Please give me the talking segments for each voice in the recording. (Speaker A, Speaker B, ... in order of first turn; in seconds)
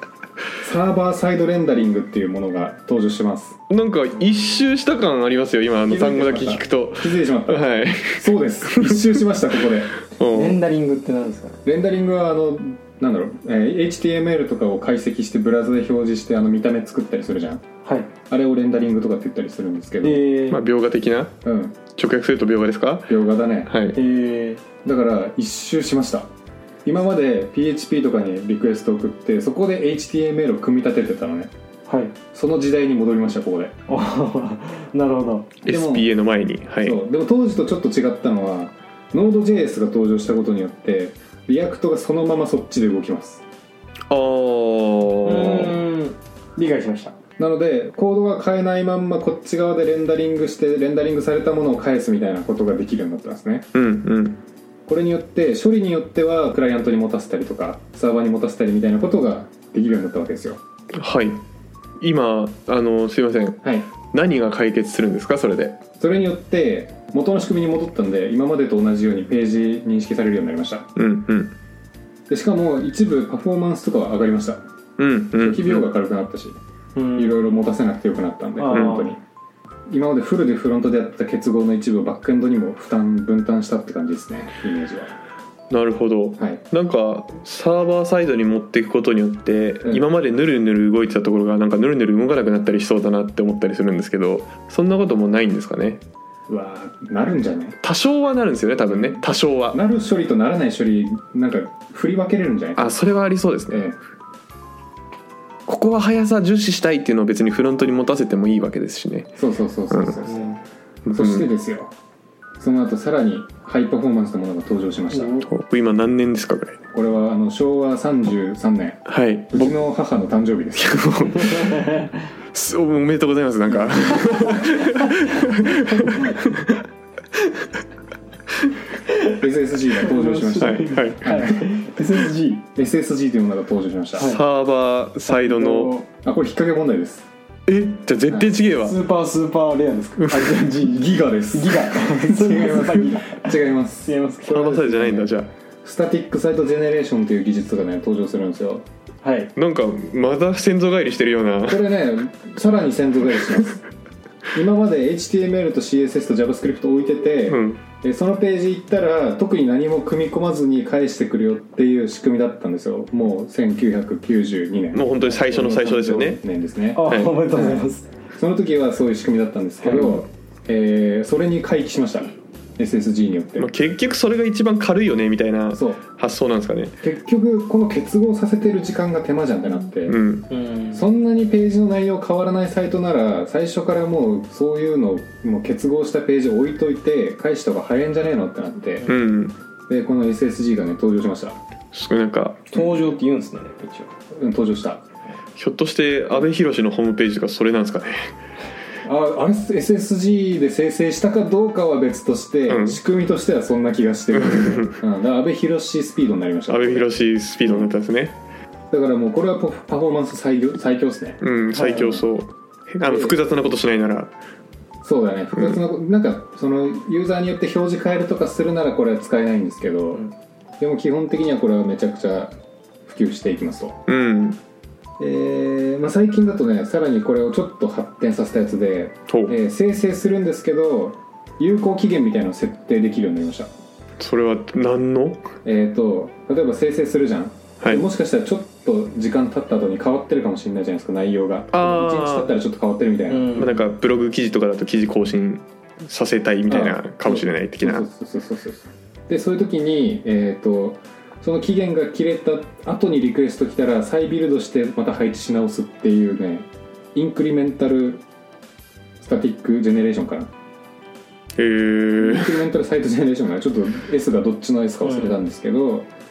Speaker A: 0.6-3.6, 5.9-9.9, 11.7-17.7, 18.3-20.2, 21.4-21.8, 23.1-23.7, 24.8-26.3, 26.9-31.5, 32.3-33.8, 35.7-36.1, 36.8-43.4, 47.4-53.7, 54.9-60.6, 63.6-63.9, 66.0-70.9, 72.3-74.6, 75.4-76.6, 77.2-79.2, 79.9-85.1, 96.5-97.8, 98.9-102.9, 103.7-104.0, 109.4-110.6, 111.1-111.9, 112.6-115.3, 116.9-121.1, 123.7-124.6, 129.4-131.6, 132.8-134.3, 136.2-137.3, 140.8-144.2, 144.9-145.3, 145.8-148.9, 151.7-153.8, 154.5-173.7, 175.7-176.0, 177.0-180.2, 180.9-189.1, 189.9-191.6, 194.3-195.0, 199.1-207.1, 207.6-207.9, 208.9-212.2, 213.1-213.4, 215.0-220.2, 220.8-224.0, 225.2-233.7, 235.6-243.6, 246.7-258.2, 259.2-260.5, 262.2-266.1
Speaker B: 3.7-9.2, 10.1-10.6, 20.5-21.4, 21.9-23.1, 23.7-24.0, 35.7-37.0, 44.1-45.8, 53.7-54.4, 60.9-61.4, 62.0-65.8, 71.0-71.5, 75.0-75.9, 78.7-79.1, 85.7-96.0, 97.8-99.8, 102.8-103.8, 105.7-109.3, 109.9-110.2, 111.0-111.5, 115.4-116.8, 119.1-119.8, 120.8-126.8, 127.4-127.7, 130.6-131.3, 134.2-136.0, 137.7-139.0, 140.2-140.6, 144.5-145.5, 149.6-151.8, 157.5-157.8, 164.9-166.4, 167.0-167.3, 173.6-177.0, 180.1-180.5, 189.1-189.6, 191.9-192.8, 195.6-198.3, 202.7-203.0, 204.3-205.0, 206.7-208.4, 211.4-214.3, 224.1-224.6, 229.3-229.6, 234.2-235.5, 241.7-242.5, 243.6-248.1, 261.6-262.6
Speaker C: 10.3-11.6, 17.9-18.1, 20.0-20.6, 23.9-24.6, 31.9-32.1, 33.9-35.5, 45.2-47.2, 77.0-77.5, 78.6-79.2, 115.1-115.4, 130.0-132.7, 134.2-134.4, 135.3-136.1, 138.7-143.6, 144.1-145.2, 149.2-149.5, 166.9-168.1, 169.9-170.2, 180.5-181.1, 192.7-194.1, 243.3-243.8, 265.0-265.4